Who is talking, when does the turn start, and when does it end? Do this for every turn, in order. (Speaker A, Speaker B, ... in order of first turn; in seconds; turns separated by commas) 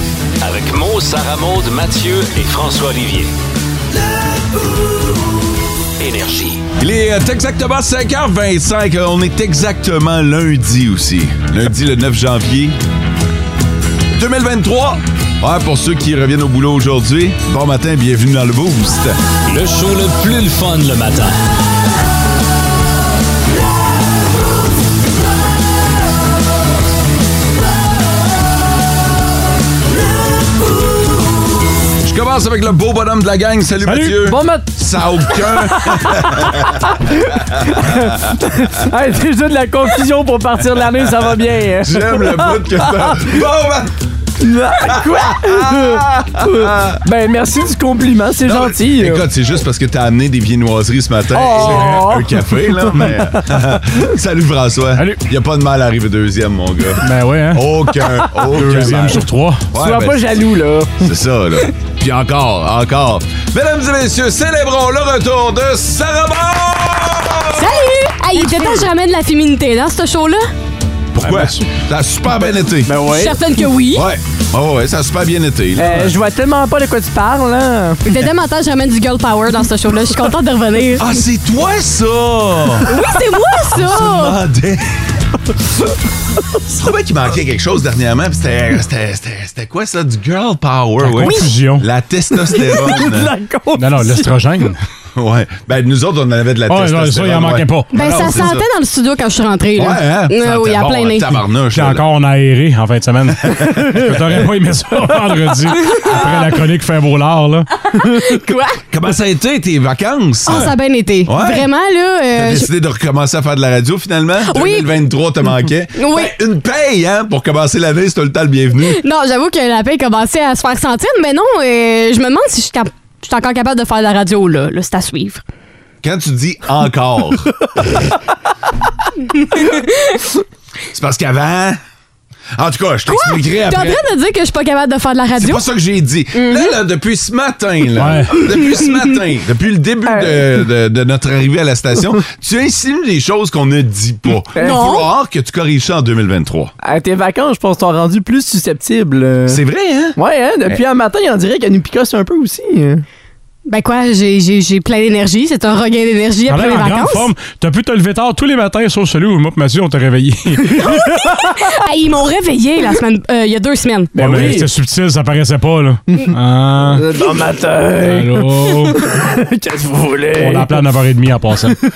Speaker A: 0.4-3.3, Speaker A: 6.0-6.6, Speaker B: 6.8-12.8, Speaker B: 14.1-19.1, Speaker A: 19.5-21.4, Speaker B: 32.0-36.7, Speaker C: 33.8-34.2, Speaker D: 34.3-43.4, Speaker B: 41.8-44.0, Speaker D: 44.4-49.2, Speaker B: 44.9-47.0, Speaker B: 48.5-60.4, Speaker D: 51.3-53.4, Speaker C: 51.6-52.0, Speaker C: 55.0-55.2, Speaker C: 57.0-57.7, Speaker C: 58.5-59.7, Speaker D: 59.8-61.1, Speaker B: 61.0-67.7, Speaker E: 67.5-70.5, Speaker B: 71.1-73.0, Speaker C: 71.2-71.6, Speaker D: 72.8-73.4, Speaker E: 73.1-74.1, Speaker B: 73.9-76.1, Speaker D: 75.8-78.0, Speaker E: 78.0-81.0, Speaker B: 81.0-82.9, Speaker E: 82.9-84.4, Speaker B: 83.7-84.8, Speaker B: 86.7-93.3, Speaker C: 91.0-91.8, Speaker D: 92.4-94.3, Speaker C: 93.7-94.8, Speaker B: 95.1-98.6, Speaker C: 96.7-98.3, Speaker E: 97.9-101.4, Speaker B: 99.8-102.0, Speaker C: 101.7-107.7, Speaker B: 103.4-104.4, Speaker E: 107.9-108.8, Speaker B: 108.9-110.7, Speaker E: 110.5-112.7, Speaker B: 111.2-111.7, Speaker B: 112.3-119.0, Speaker E: 114.4-114.9, Speaker E: 115.9-116.3, Speaker E: 118.9-125.4, Speaker B: 126.0-127.5, Speaker E: 129.4-130.2, Speaker B: 130.9-131.8, Speaker B: 132.6-134.0, Speaker E: 133.1-135.7, Speaker B: 135.4-146.7, Speaker E: 136.3-136.8, Speaker C: 137.9-138.5, Speaker D: 140.1-140.6, Speaker D: 144.6-144.9, Speaker E: 144.6-145.1, Speaker D: 146.8-149.6, Speaker B: 149.5-150.2, Speaker D: 150.2-153.1, Speaker E: 153.7-157.3, Speaker C: 156.5-160.8, Speaker E: 160.8-164.1, Speaker D: 164.2-164.7, Speaker C: 164.2-167.1, Speaker D: 166.9-170.9, Speaker C: 168.0-169.0, Speaker C: 170.3-171.8